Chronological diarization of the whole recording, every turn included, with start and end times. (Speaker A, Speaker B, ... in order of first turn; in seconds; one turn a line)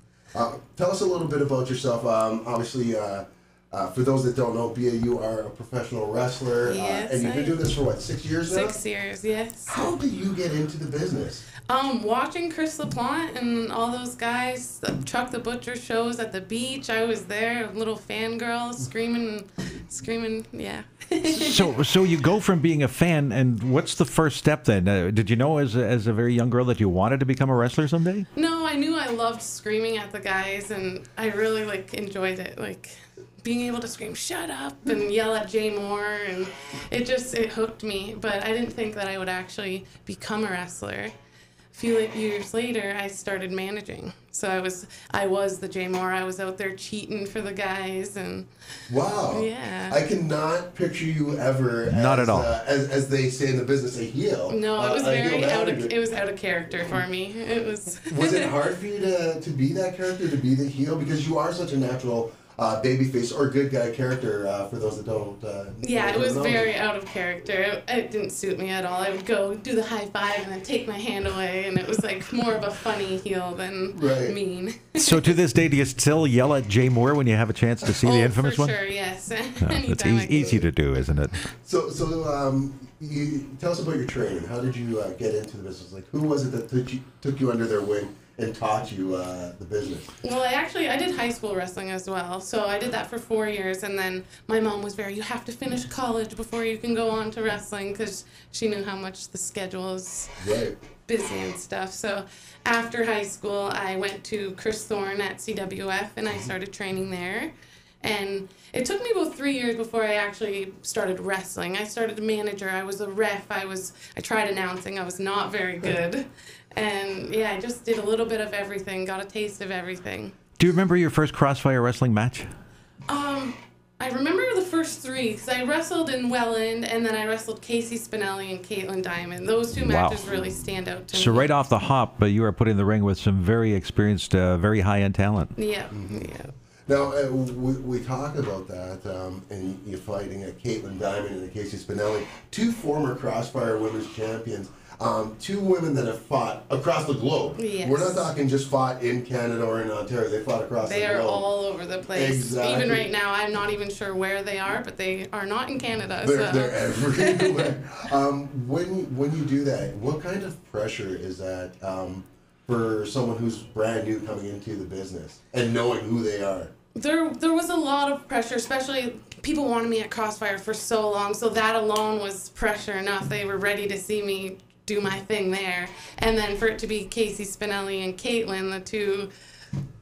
Speaker A: 0.3-8.8
Speaker B: 6.6-7.6
Speaker B: 8.5-9.9
Speaker A: 9.7-11.5
Speaker B: 11.6-21.8
Speaker C: 21.2-28.3
Speaker B: 28.3-41.1
Speaker B: 41.7-48.5
Speaker A: 48.9-56.0
Speaker B: 49.3-50.0
Speaker C: 51.9-52.5
Speaker B: 54.5-58.5
Speaker A: 58.1-66.7
Speaker B: 65.8-75.3
Speaker A: 73.9-74.4
Speaker C: 75.0-78.8
Speaker B: 78.0-80.7
Speaker C: 79.6-81.3
Speaker A: 81.6-90.1
Speaker B: 90.2-100.4
Speaker A: 100.4-100.8
Speaker B: 101.1-120.4
Speaker C: 120.6-122.5
Speaker B: 123.1-131.5
Speaker C: 129.7-130.4
Speaker C: 131.1-135.5
Speaker B: 135.6-136.5
Speaker A: 135.9-136.3
Speaker A: 136.9-151.5
Speaker B: 147.6-148.3
Speaker B: 150.8-157.8
Speaker A: 152.1-153.1
Speaker A: 156.2-166.7
Speaker B: 166.9-179.3